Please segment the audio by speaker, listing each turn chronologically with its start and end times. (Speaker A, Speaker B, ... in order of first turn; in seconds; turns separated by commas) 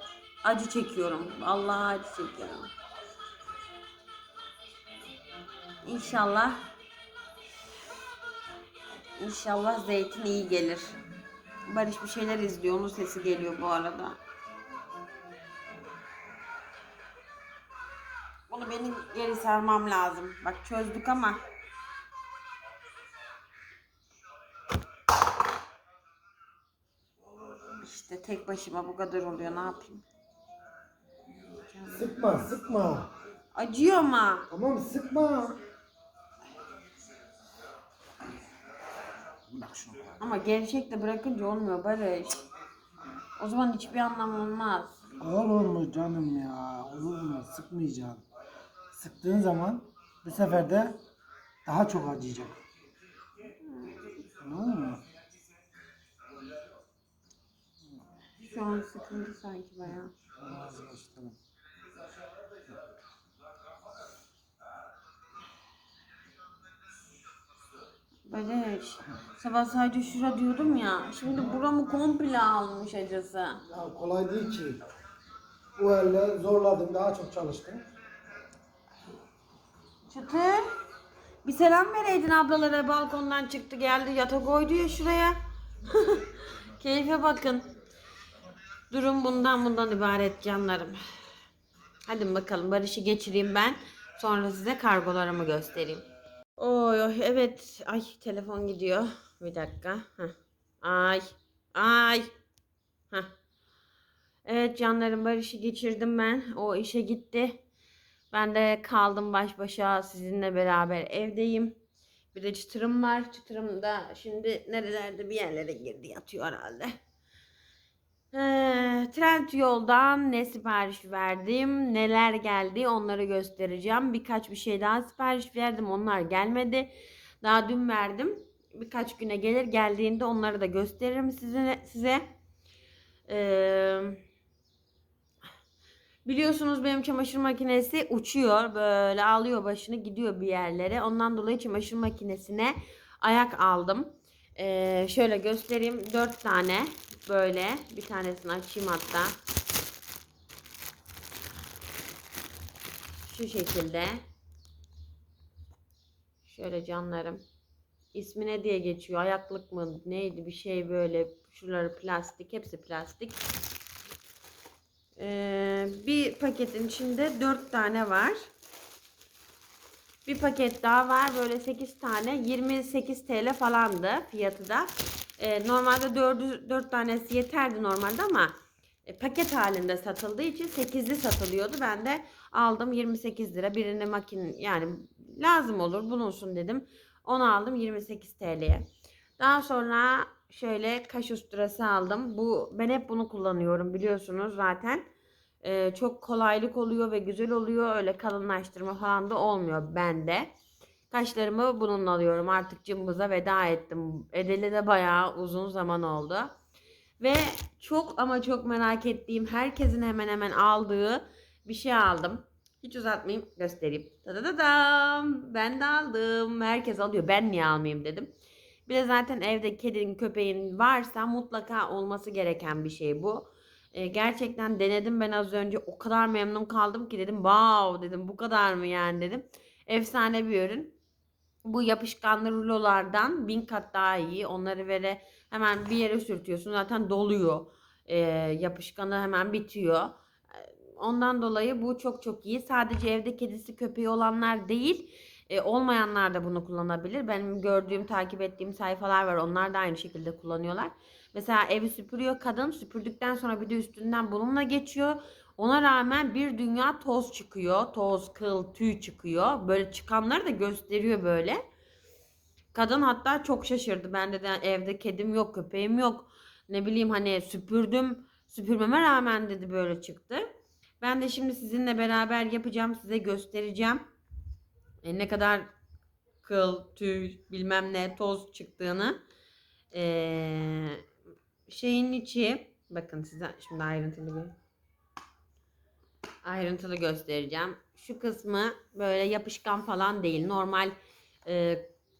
Speaker A: 0.4-2.7, Speaker A: 5.8-6.6, Speaker A: 9.2-11.0, Speaker A: 11.7-14.2, Speaker A: 18.5-21.4, Speaker A: 27.8-30.1, Speaker B: 31.9-33.1, Speaker A: 33.5-34.5, Speaker B: 34.5-35.6, Speaker B: 39.5-40.1, Speaker A: 40.2-42.4, Speaker A: 43.4-45.0, Speaker B: 45.2-48.2, Speaker B: 48.9-51.0, Speaker B: 51.6-52.6, Speaker A: 53.6-54.2, Speaker B: 54.4-55.0, Speaker A: 58.4-60.1, Speaker B: 60.4-61.4, Speaker A: 68.3-73.6, Speaker B: 73.7-74.8, Speaker B: 75.8-77.8, Speaker A: 80.1-80.7, Speaker A: 81.4-87.7, Speaker A: 88.9-91.0, Speaker A: 92.1-96.0, Speaker A: 96.6-102.3, Speaker A: 104.4-107.6, Speaker A: 108.3-111.8, Speaker A: 112.3-116.9, Speaker A: 118.3-132.2, Speaker A: 133.3-134.2, Speaker A: 136.2-149.3, Speaker A: 153.2-154.2, Speaker A: 156.4-157.4, Speaker A: 158.1-163.4, Speaker A: 165.2-168.4, Speaker A: 170.2-178.5, Speaker A: 179.1-188.8, Speaker A: 189.4-195.1, Speaker A: 195.6-200.5, Speaker A: 201.1-206.5, Speaker A: 207.2-218.3, Speaker A: 218.9-230.9, Speaker A: 231.6-261.6, Speaker A: 262.7-270.4, Speaker A: 271.0-274.1, Speaker A: 275.0-275.7, Speaker A: 276.4-279.2, Speaker A: 279.9-281.0, Speaker A: 281.7-284.6, Speaker A: 286.4-291.8